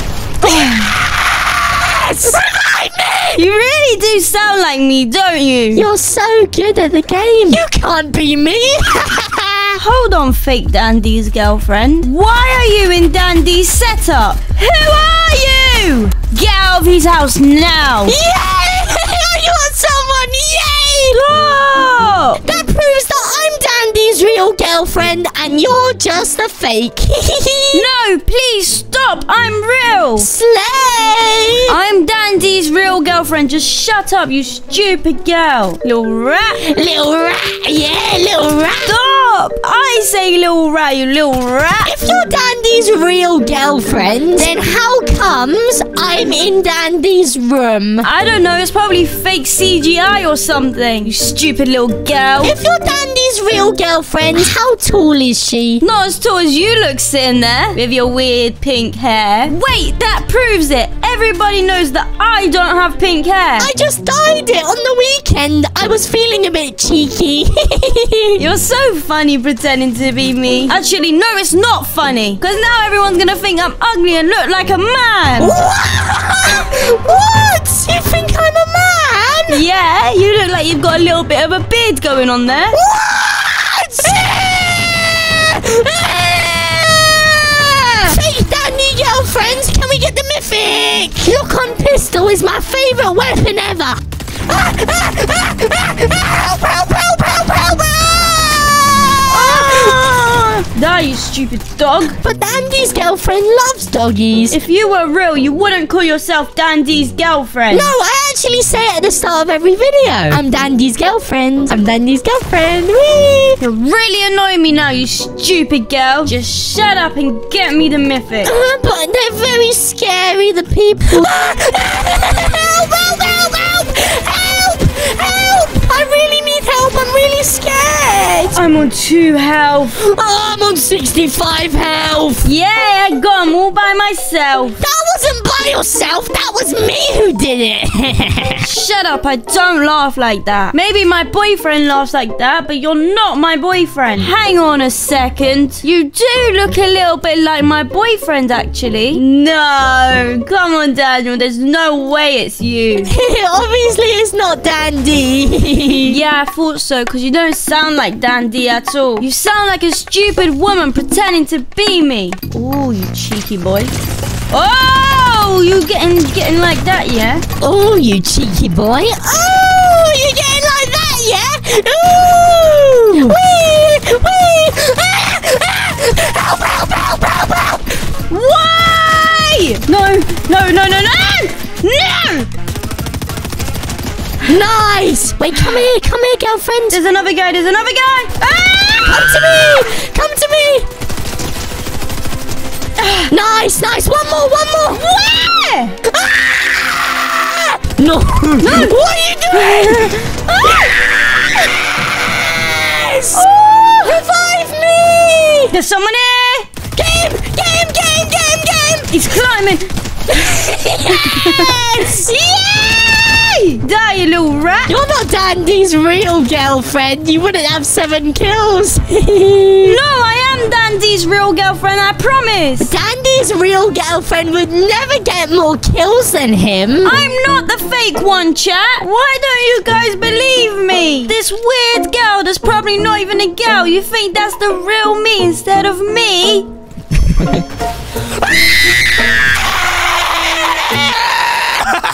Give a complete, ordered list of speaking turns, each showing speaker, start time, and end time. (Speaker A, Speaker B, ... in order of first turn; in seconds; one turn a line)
Speaker A: 0.4-3.4
Speaker B: 0.4-0.9
Speaker B: 3.3-5.8
Speaker A: 5.7-9.8
Speaker B: 9.8-18.1
Speaker A: 18.1-21.2
Speaker B: 21.1-22.4
Speaker A: 22.4-27.9
Speaker B: 27.7-30.3
Speaker A: 30.2-31.8
Speaker B: 31.7-36.6
Speaker A: 36.6-39.0
Speaker B: 38.8-41.9
Speaker A: 41.8-48.1
Speaker B: 48.0-52.5
Speaker A: 52.4-55.8
Speaker B: 55.8-63.7
Speaker A: 63.6-68.4
Speaker B: 68.3-75.5
Speaker A: 75.4-79.6
Speaker B: 79.5-82.8
Speaker A: 82.7-94.0
Speaker A: 94.5-100.0
Speaker B: 99.3-102.2
Speaker A: 102.1-104.6
Speaker B: 104.5-107.9
Speaker A: 107.7-113.6
Speaker B: 113.6-118.5
Speaker A: 118.4-128.6
Speaker B: 128.5-130.0
Speaker A: 129.9-132.5
Speaker B: 132.4-134.8
Speaker A: 134.8-138.7
Speaker B: 138.6-153.1
Speaker A: 153.0-156.2
Speaker B: 156.0-163.9
Speaker B: 164.5-167.4
Speaker A: 167.6-177.8
Speaker B: 178.3-182.5
Speaker A: 184.4-187.0
Speaker B: 186.9-189.5
Speaker A: 188.9-190.8
Speaker B: 193.0-193.3
Speaker A: 193.3-195.2
Speaker B: 195.1-195.9
Speaker A: 196.0-203.5
Speaker B: 198.6-198.9
Speaker B: 199.5-200.9
Speaker B: 203.3-204.2
Speaker A: 204.0-205.7
Speaker B: 205.7-206.7
Speaker A: 206.9-209.1
Speaker B: 209.1-209.9
Speaker A: 210.3-212.4
Speaker B: 211.1-214.9
Speaker A: 214.9-220.0
Speaker B: 219.8-222.9
Speaker A: 222.8-227.2
Speaker B: 227.0-236.7
Speaker A: 239.4-241.6